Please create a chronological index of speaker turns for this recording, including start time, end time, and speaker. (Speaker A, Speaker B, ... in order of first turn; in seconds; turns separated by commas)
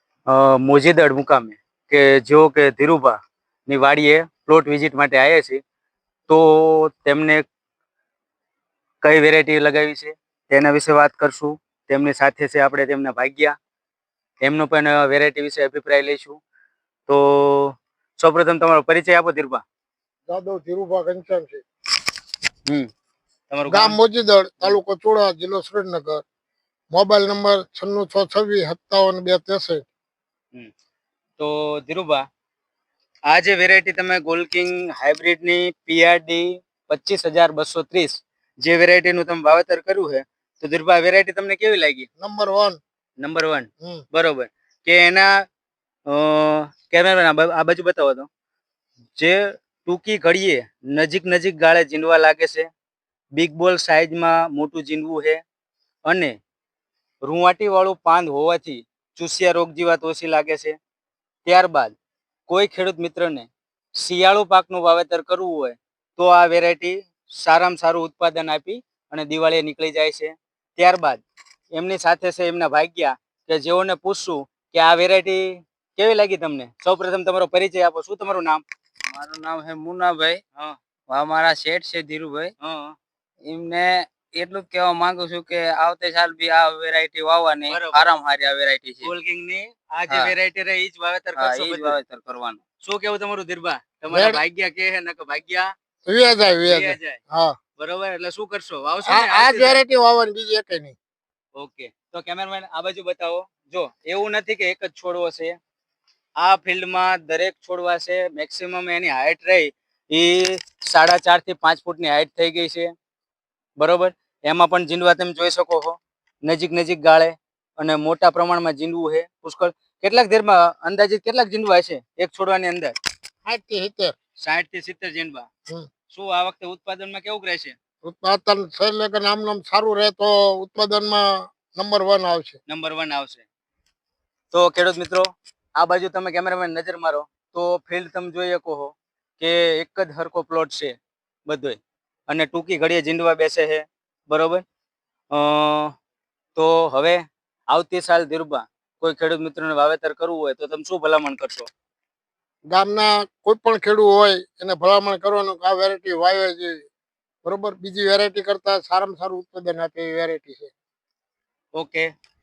Speaker A: 0.3-5.6, Speaker A: 6.3-7.5, Speaker A: 9.0-13.6, Speaker A: 14.4-16.4, Speaker A: 17.1-19.6, Speaker B: 20.3-21.6, Speaker A: 23.5-24.0, Speaker B: 23.7-26.2, Speaker B: 26.9-29.9, Speaker A: 31.4-32.2, Speaker A: 33.3-42.1, Speaker B: 42.2-42.8, Speaker A: 43.2-45.5, Speaker A: 46.1-48.3, Speaker A: 49.1-52.7, Speaker A: 53.3-55.4, Speaker A: 56.0-56.4, Speaker A: 57.2-60.8, Speaker A: 61.4-61.9, Speaker A: 62.5-71.2, Speaker A: 71.7-78.6, Speaker C: 79.1-80.4, Speaker C: 81.1-82.5, Speaker A: 82.6-83.0, Speaker C: 83.4-89.1, Speaker A: 87.7-88.0, Speaker A: 89.0-92.0, Speaker C: 91.3-92.6, Speaker A: 92.8-95.7, Speaker B: 94.1-94.4, Speaker B: 96.0-97.5, Speaker A: 96.6-97.2, Speaker A: 97.8-99.8, Speaker B: 99.0-101.0, Speaker A: 101.5-105.6, Speaker A: 106.4-112.9, Speaker A: 113.8-122.9, Speaker B: 123.4-124.1, Speaker A: 124.4-125.5, Speaker A: 126.1-127.8, Speaker B: 128.0-132.6, Speaker A: 132.7-133.4, Speaker A: 134.5-144.6, Speaker A: 145.3-145.9, Speaker A: 146.6-151.7, Speaker B: 152.7-156.8, Speaker B: 157.4-160.7, Speaker A: 161.7-162.1